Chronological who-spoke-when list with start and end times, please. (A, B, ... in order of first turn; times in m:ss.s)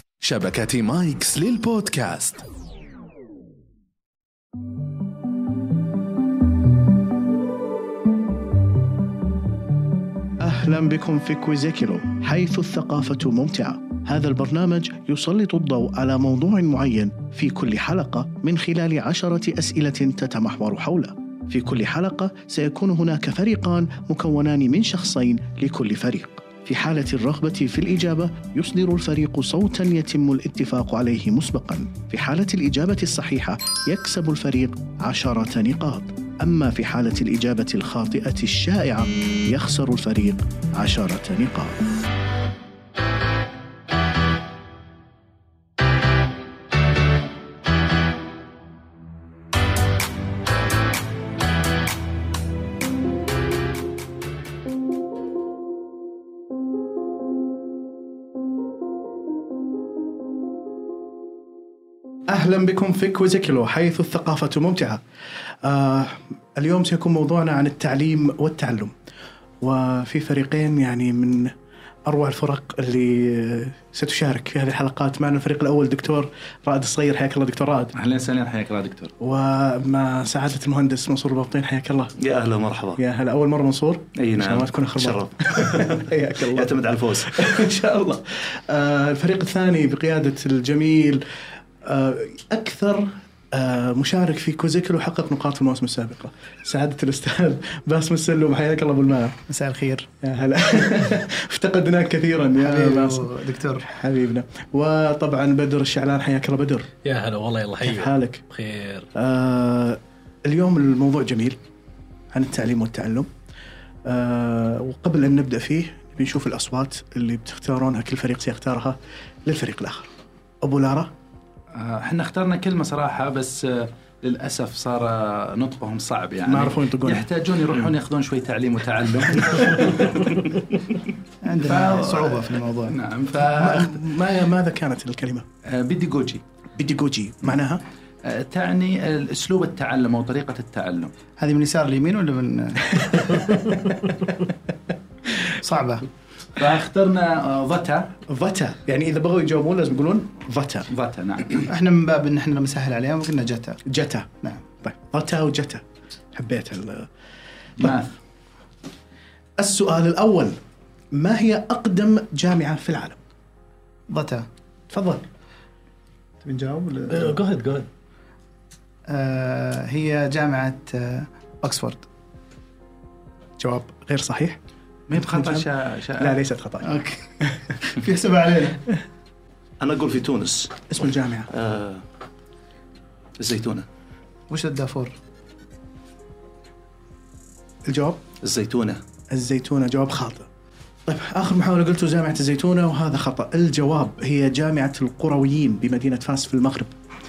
0:00.2-0:02.4 A
0:10.4-0:41.8 B
1:02.3-1:05.0 B
1:05.6-1:08.9 B
1:09.6-1:11.5 B
1:12.1-1:18.0 B
1:18.0-1:19.1 C
1:19.2-1:22.1 B
1:22.2-1:23.0 D
1:23.0-1:31.3 B
1:24.2-1:27.6 D
1:31.8-1:39.4 B
1:39.5-1:40.1 E
1:40.2-1:46.9 B
1:42.6-1:43.9 E
1:47.0-1:49.1 F
1:47.8-1:48.4 B
1:49.2-1:51.6 B
1:52.3-1:53.3 B
1:54.1-2:00.1 B
2:00.6-2:01.1 B
2:01.8-2:10.7 C
2:06.4-2:07.3 B
2:11.4-2:13.0 E
2:11.6-2:14.0 C
2:13.4-2:15.5 B
2:15.7-2:16.4 C
2:16.8-2:17.8 B
2:18.2-2:21.1 C
2:21.4-2:23.4 E
2:25.5-2:26.1 E
2:26.6-2:28.2 C
2:28.3-2:30.9 B
2:30.9-2:31.7 C
2:31.7-2:33.8 E
2:33.9-2:34.3 B
2:34.8-2:37.1 B
2:37.8-2:38.1 C
2:39.6-2:40.6 B
2:41.1-2:43.2 B
2:44.1-2:44.5 E
2:44.9-2:45.2 B
2:46.4-2:47.4 E
2:47.1-2:47.9 F
2:49.1-2:52.1 E
2:53.6-2:54.6 B
2:55.1-2:56.4 C
2:55.1-2:56.9 B
2:56.8-2:57.3 E
2:57.8-2:58.9 E
2:59.8-3:00.9 D
3:00.9-3:01.5 B
3:01.5-3:02.0 D
3:03.4-3:03.9 D
3:04.5-3:05.1 E
3:07.9-3:08.2 B
3:08.4-3:09.0 D
3:09.3-3:10.5 B
3:11.1-3:16.9 B